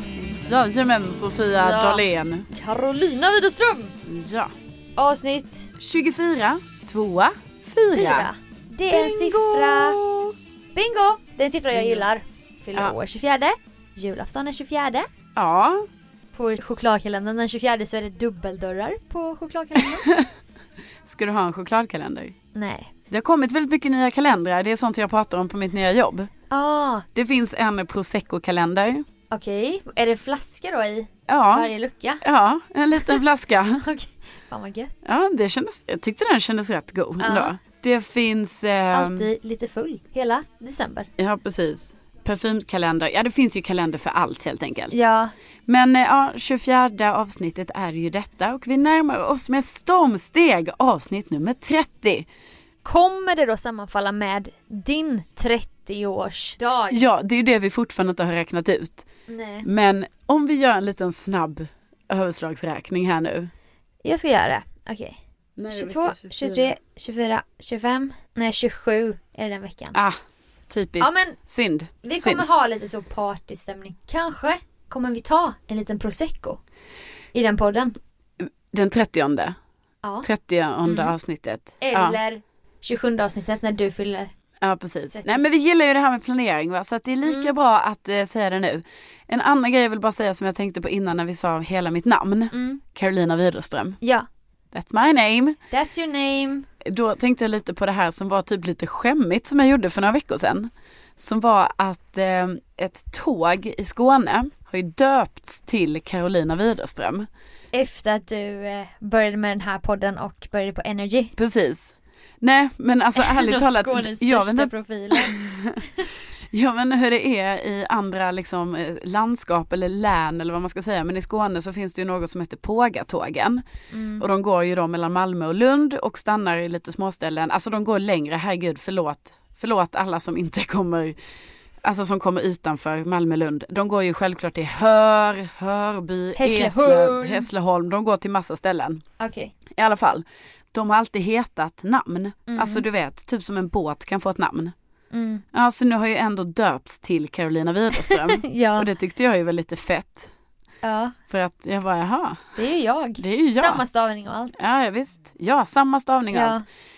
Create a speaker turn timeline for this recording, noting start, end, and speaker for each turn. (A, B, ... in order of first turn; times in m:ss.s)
0:00.1-0:02.5 A
0:01.4-0:03.9 B
0:04.0-0:04.5 A
0:05.0-0:05.7 B
0:05.8-0:08.3 A
0:07.9-0:10.0 B
0:08.9-0:10.4 A
0:10.7-0:15.1 B
0:11.7-0:12.1 A
0:15.4-0:15.8 A
0:16.3-0:20.1 B
0:19.8-0:20.3 A
0:21.0-0:22.3 A
0:22.5-0:22.9 B
0:23.1-0:26.3 A
0:26.5-0:27.0 B
0:27.1-0:29.0 A
0:29.3-0:32.2 B
0:31.3-0:31.7 A
0:32.2-0:33.8 A
0:33.8-0:34.9 B
0:35.0-0:39.3 A
0:37.2-0:37.5 B
0:38.9-0:41.1 B
0:41.2-0:45.0 A
0:44.9-0:45.3 B
0:45.7-0:52.3 A
0:52.8-0:57.0 B
0:56.9-0:59.0 A
0:59.3-0:59.7 B
0:59.6-1:03.5 A
1:04.0-1:05.2 B
1:05.6-1:06.7 A
1:05.7-1:10.0 B
1:10.7-1:12.4 A
1:11.0-1:11.4 B
1:12.0-1:16.6 B
1:17.3-1:18.0 B
1:18.4-1:19.6 A
1:20.2-1:22.2 A
1:20.8-1:21.1 B
1:21.8-1:24.3 B
1:24.6-1:34.0 A
1:25.1-1:25.4 B
1:27.2-1:27.5 B
1:32.5-1:32.8 B
1:34.7-1:35.6 A
1:35.7-1:36.7 B
1:36.8-1:47.3 A
1:47.7-1:51.3 B
1:51.4-1:55.9 A
1:53.2-1:55.4 B
1:56.5-2:03.6 A
2:03.9-2:04.2 B
2:04.2-2:11.2 A
2:11.8-2:19.0 A
2:16.4-2:17.5 B
2:19.2-2:19.5 B
2:19.7-2:24.7 A
2:22.5-2:22.8 B
2:25.1-2:25.4 B
2:25.5-2:30.3 A
2:27.9-2:28.9 B
2:30.8-2:31.2 B
2:31.3-2:32.6 A
2:32.6-2:34.6 B
2:33.2-2:33.8 A
2:34.6-2:36.6 A
2:36.3-2:36.6 B